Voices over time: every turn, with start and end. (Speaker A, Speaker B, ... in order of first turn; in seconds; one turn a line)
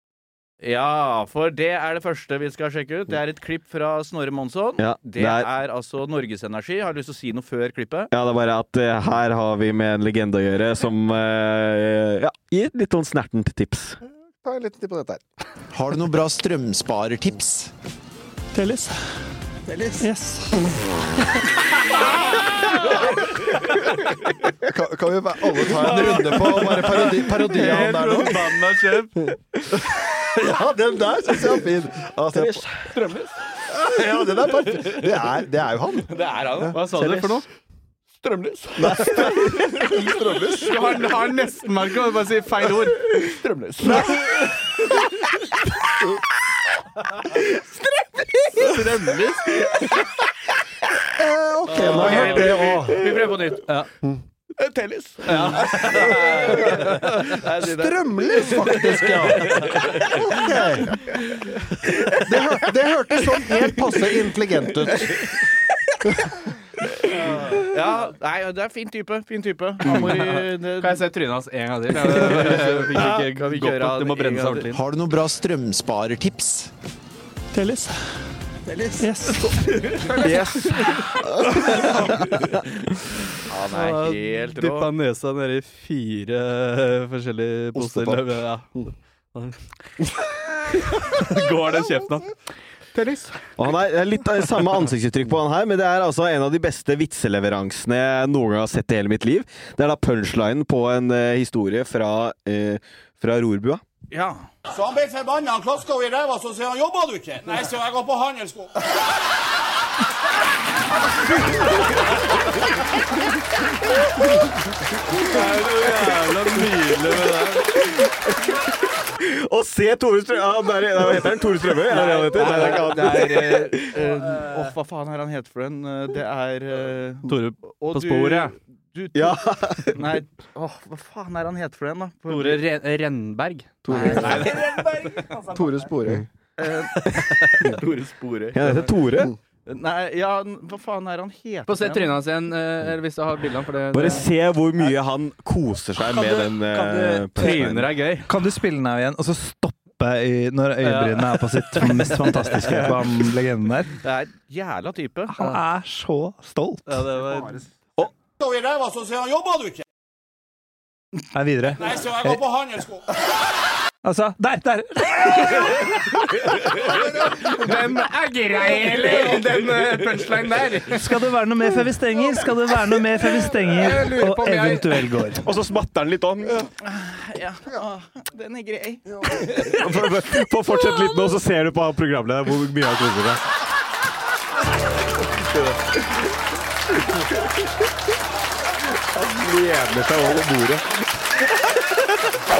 Speaker A: 0.6-8.1
Speaker B: 4.8-5.5
Speaker B: 8.1-14.0
Speaker C: 14.4-15.2
Speaker D: 15.7-17.7
Speaker D: 18.5-19.0
Speaker C: 19.7-20.1
Speaker D: 20.0-20.6
Speaker C: 22.8-23.2
Speaker C: 24.4-28.6
Speaker E: 25.8-29.3
Speaker C: 30.2-32.6
Speaker B: 32.3-32.6
Speaker A: 32.9-33.3
Speaker C: 33.7-36.7
Speaker A: 36.1-36.9
Speaker E: 36.7-37.4
Speaker A: 38.2-41.1
Speaker B: 38.8-39.8
Speaker C: 39.1-41.0
Speaker E: 40.5-43.0
Speaker A: 43.1-44.5
Speaker C: 43.8-44.2
Speaker A: 48.6-49.6
Speaker E: 48.7-49.4
Speaker C: 51.1-53.3
Speaker A: 51.7-53.7
Speaker E: 51.7-52.5
Speaker A: 54.6-61.2
Speaker E: 55.2-57.2
Speaker C: 55.8-56.9
Speaker C: 57.4-61.2
Speaker C: 61.9-65.3
Speaker A: 67.5-71.0
Speaker E: 69.8-74.8
Speaker A: 71.9-74.8
Speaker D: 74.7-76.7
Speaker D: 77.5-78.1
Speaker D: 79.0-79.8
Speaker E: 79.9-82.6
Speaker A: 83.5-84.9
Speaker E: 83.7-88.7
Speaker B: 87.8-88.2
Speaker E: 89.3-89.6
Speaker E: 90.8-92.3
Speaker E: 92.9-93.4
Speaker B: 93.6-103.8
Speaker A: 104.1-104.5
Speaker F: 104.7-108.7
Speaker E: 115.1-117.7
Speaker B: 117.8-123.9
Speaker A: 121.9-132.6
Speaker E: 127.2-128.5
Speaker B: 129.1-130.0
Speaker E: 132.3-135.2
Speaker C: 133.8-134.7
Speaker A: 133.9-135.3
Speaker C: 135.4-136.2
Speaker A: 136.6-138.9
Speaker E: 137.1-137.8
Speaker B: 138.5-139.3
Speaker A: 139.7-142.1
Speaker E: 141.7-144.3
Speaker B: 143.9-147.9
Speaker G: 146.0-147.7
Speaker E: 147.4-148.3
Speaker G: 148.3-153.9
Speaker E: 150.8-152.8
Speaker A: 154.0-155.6
Speaker G: 155.3-157.0
Speaker E: 156.9-157.6
Speaker F: 158.4-159.8
Speaker G: 161.3-162.4
Speaker F: 161.8-163.0
Speaker G: 164.0-166.2
Speaker E: 167.1-171.1
Speaker G: 170.9-175.5
Speaker E: 173.9-174.8
Speaker B: 175.4-176.7
Speaker A: 176.8-179.6
Speaker B: 179.5-183.4
Speaker B: 189.3-190.8